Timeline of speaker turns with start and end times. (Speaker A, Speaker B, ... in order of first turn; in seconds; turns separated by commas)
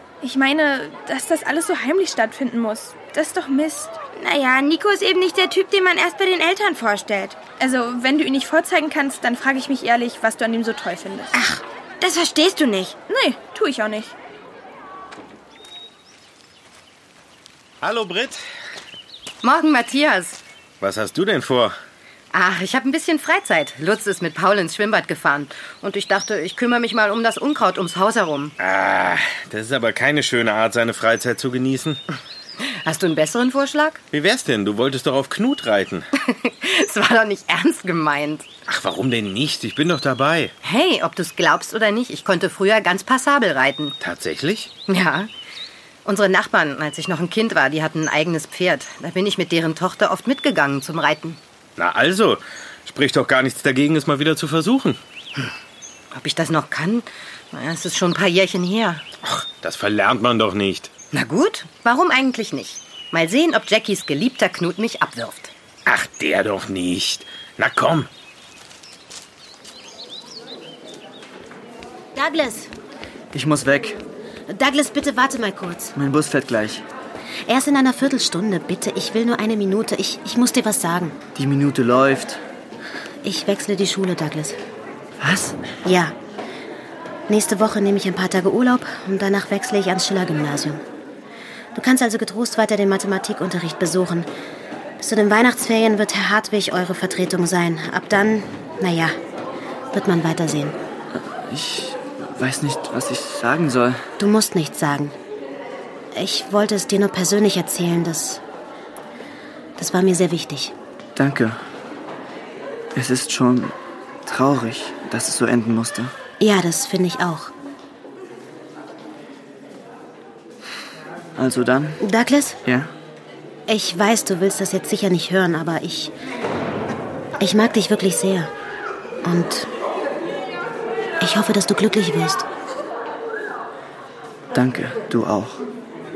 Speaker A: 0.2-4.0, Speaker B: 4.1-7.4, Speaker A: 7.6-11.3, Speaker B: 11.3-13.0, Speaker A: 13.1-14.1, Speaker C: 17.8-18.4, Speaker D: 19.4-20.4, Speaker C: 20.8-21.8, Speaker D: 22.3-28.5, Speaker C: 28.6-32.0, Speaker D: 32.6-34.0, Speaker C: 34.1-36.1, Speaker D: 36.2-38.5, Speaker C: 38.7-40.5, Speaker D: 40.6-44.0, Speaker C: 44.0-44.7, Speaker D: 44.9-45.3, Speaker D: 46.0-51.4, Speaker C: 51.8-55.0, Speaker D: 56.1-59.0, Speaker C: 59.2-60.9, Speaker D: 61.1-65.5, Speaker C: 65.9-68.1, Speaker E: 72.2-72.7, Speaker F: 73.3-74.0, Speaker E: 74.5-75.9, Speaker F: 76.0-76.8, Speaker E: 77.5-81.2, Speaker F: 81.3-82.4, Speaker E: 83.2-84.6, Speaker F: 85.2-85.7, Speaker E: 85.9-86.1, Speaker E: 87.3-90.8, Speaker E: 91.8-94.3, Speaker E: 95.0-99.2, Speaker E: 99.9-100.8, Speaker F: 101.4-104.0, Speaker E: 104.2-105.1, Speaker E: 106.2-108.4, Speaker E: 109.8-110.7, Speaker F: 111.2-111.6, Speaker F: 112.9-116.1, Speaker E: 116.4-117.5, Speaker F: 121.4-122.0, Speaker E: 122.1-122.5, Speaker F: 122.7-122.9, Speaker E: 123.7-126.1, Speaker E: 127.4-128.5, Speaker E: 129.2-129.7, Speaker E: 131.2-132.4, Speaker F: 134.5-135.6